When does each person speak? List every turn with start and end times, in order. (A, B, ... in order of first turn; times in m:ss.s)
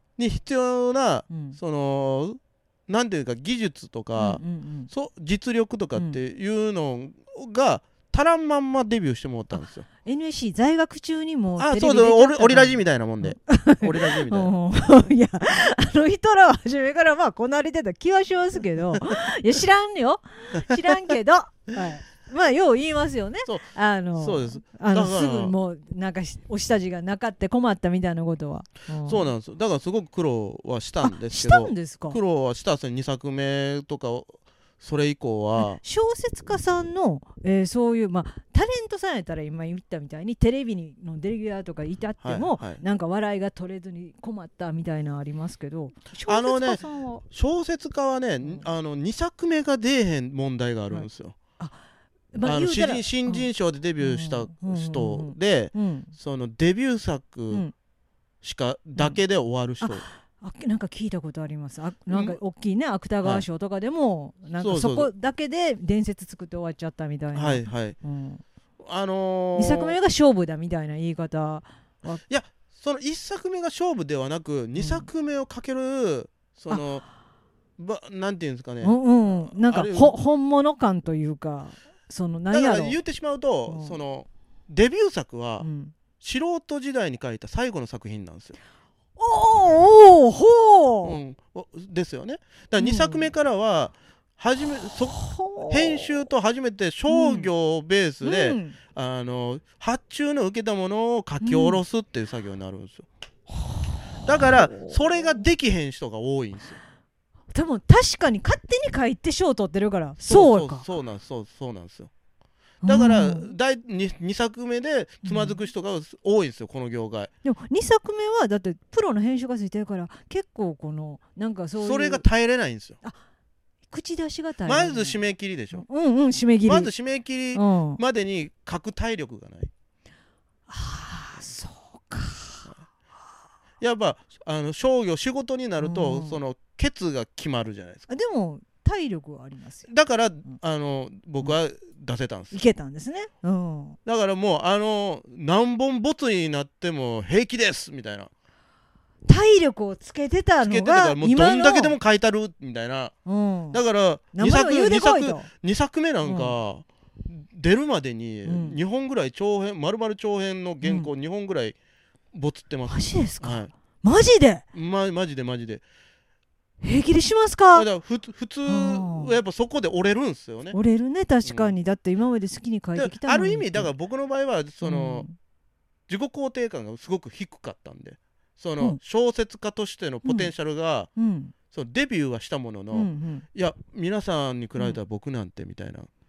0:00.2-0:09.8 A
0:01.3-0:01.6 B
0:04.2-0:04.9 B
0:09.5-0:29.3 B
0:11.6-0:14.5 A
0:24.2-0:25.5 A
0:29.0-0:35.8 A
0:31.0-0:32.2 B
0:35.6-0:47.2 B
0:42.2-0:42.8 A
0:46.2-0:51.3 A
0:52.3-0:56.1 B
0:52.4-0:57.6 A
0:58.4-1:00.0 A
0:59.8-1:08.4 B
1:02.1-1:02.4 A
1:04.6-1:05.1 A
1:07.3-1:08.0 A
1:08.8-1:10.0 A
1:09.6-1:12.2 B
1:12.3-1:17.0 A
1:14.8-1:15.1 B
1:17.8-1:20.1 A
1:18.8-1:23.0 B
1:22.5-1:25.7 A
1:23.7-1:24.0 B
1:25.6-1:25.9 B
1:26.2-1:28.6 A
1:29.2-1:31.2 B
1:31.0-1:43.0 A
1:32.8-1:33.3 B
1:35.1-1:36.2 B
1:37.1-1:37.5 B
1:38.2-1:38.8 B
1:41.4-1:41.8 B
1:43.5-1:45.0 B
1:44.2-1:46.8 A
1:47.5-1:50.8 B
1:50.2-1:52.1 A
1:52.8-1:53.5 B
1:52.8-1:57.3 A
1:55.2-1:55.6 B
1:57.4-2:02.2 B
2:01.8-2:03.0 A
2:03.9-2:05.2 B
2:04.6-2:05.8 A
2:05.7-2:06.9 B
2:06.6-2:09.7 A
2:07.5-2:08.0 B
2:10.7-2:12.7 B
2:13.8-2:18.1 A
2:15.8-2:16.4 B
2:18.1-2:19.9 B
2:19.9-2:22.6 A
2:22.5-2:24.0 B
2:24.0-2:28.3 A
2:29.2-2:32.0 B
2:30.6-2:33.1 A
2:33.2-2:33.8 B
2:33.7-2:41.7 A
2:34.3-2:35.5 B
2:36.2-2:36.5 B
2:38.4-2:38.8 B
2:40.8-2:41.1 B
2:42.3-2:43.7 A
2:42.9-2:44.6 B
2:44.7-2:45.8 A
2:46.8-2:47.9 B
2:47.7-2:50.8 A
2:48.6-2:49.3 B
2:50.7-2:53.9 B
2:51.4-2:51.7 A
2:52.9-2:55.3 A
2:54.8-2:55.3 B
2:56.1-3:01.1 A
3:00.2-3:00.5 B
3:01.2-3:01.5 B
3:01.7-3:06.1 A
3:02.9-3:03.4 B